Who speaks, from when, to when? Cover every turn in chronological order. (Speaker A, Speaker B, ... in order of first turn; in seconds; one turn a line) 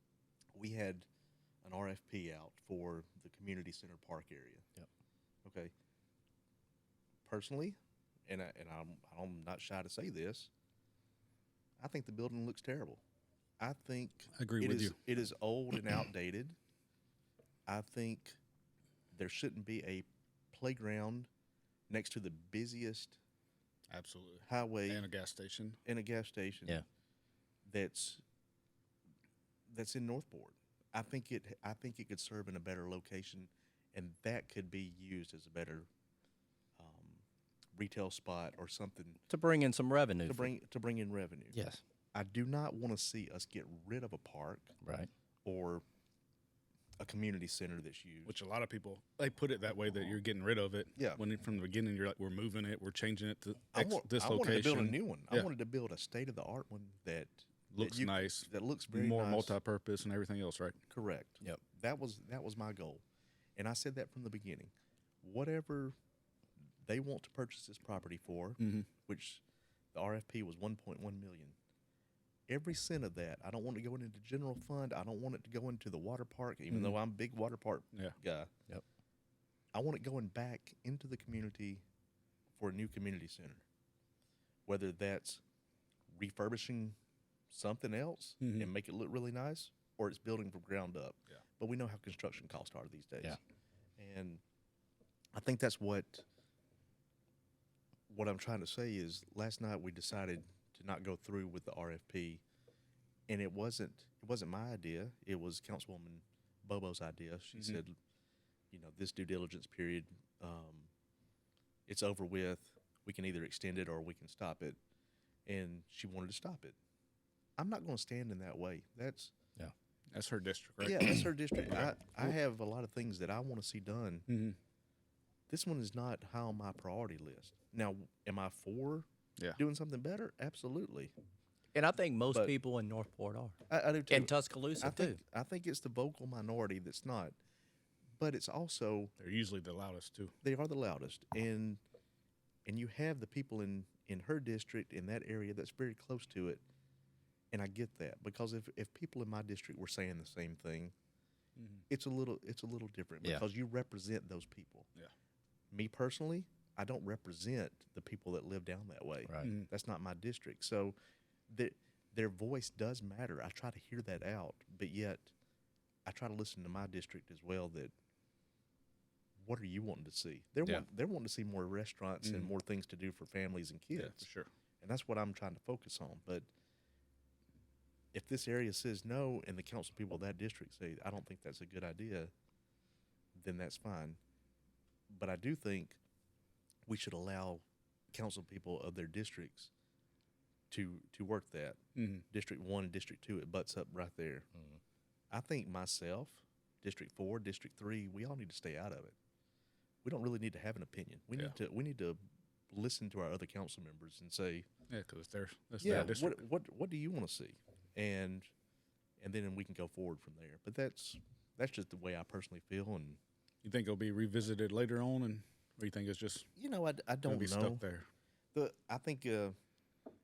Speaker A: 0.5-1.1
Speaker A: 1.6-4.6
Speaker A: 5.4-5.7
Speaker A: 7.2-10.5
Speaker A: 11.8-13.0
Speaker A: 13.6-16.6
Speaker B: 14.3-15.0
Speaker A: 17.7-18.4
Speaker A: 19.1-21.3
Speaker A: 21.9-23.2
Speaker B: 23.9-25.8
Speaker A: 24.4-25.1
Speaker A: 25.8-26.8
Speaker A: 27.6-28.2
Speaker A: 29.7-35.9
Speaker A: 36.8-37.2
Speaker A: 37.8-39.2
Speaker C: 39.3-40.5
Speaker A: 40.2-41.5
Speaker C: 41.5-41.8
Speaker A: 42.1-44.7
Speaker C: 44.8-45.1
Speaker A: 45.4-45.8
Speaker A: 47.0-48.3
Speaker B: 48.2-55.5
Speaker A: 51.0-51.2
Speaker A: 53.7-59.5
Speaker B: 57.7-60.8
Speaker A: 60.9-63.0
Speaker A: 63.5-64.7
Speaker A: 65.2-65.9
Speaker A: 66.8-69.4
Speaker B: 68.6-68.9
Speaker A: 69.9-71.5
Speaker A: 72.5-78.5
Speaker B: 76.7-77.0
Speaker A: 79.7-81.8
Speaker A: 82.6-83.6
Speaker A: 84.7-85.4
Speaker A: 86.1-87.0
Speaker A: 87.5-93.4
Speaker B: 88.4-88.7
Speaker A: 94.0-94.4
Speaker A: 95.3-96.2
Speaker A: 98.1-102.4
Speaker A: 103.3-107.9
Speaker A: 108.7-110.9
Speaker A: 111.9-114.8
Speaker A: 115.5-116.8
Speaker A: 117.6-119.3
Speaker B: 120.1-121.9
Speaker A: 120.8-124.2
Speaker B: 124.3-124.6
Speaker A: 125.5-131.1
Speaker C: 131.7-133.6
Speaker A: 133.7-137.3
Speaker C: 134.1-135.2
Speaker A: 138.2-139.1
Speaker B: 139.2-140.3
Speaker A: 140.4-141.8
Speaker A: 142.7-146.6
Speaker A: 147.5-150.9
Speaker B: 151.6-151.8
Speaker A: 151.9-154.9
Speaker A: 155.7-160.9
Speaker B: 159.4-159.7
Speaker A: 161.5-165.3
Speaker A: 166.1-167.9
Speaker A: 169.4-174.2
Speaker B: 172.2-172.5
Speaker B: 173.9-174.5
Speaker A: 174.8-176.5
Speaker A: 178.1-182.3
Speaker A: 183.3-184.2
Speaker A: 185.1-186.0
Speaker A: 186.9-189.7
Speaker A: 190.7-191.8
Speaker B: 191.9-192.2
Speaker A: 192.3-194.5
Speaker A: 195.3-199.1
Speaker A: 200.0-202.2
Speaker A: 202.7-204.7
Speaker B: 204.9-206.4
Speaker A: 205.8-208.5
Speaker A: 209.2-213.2
Speaker B: 213.6-216.5
Speaker A: 216.6-217.8
Speaker B: 217.2-218.1
Speaker A: 218.5-219.5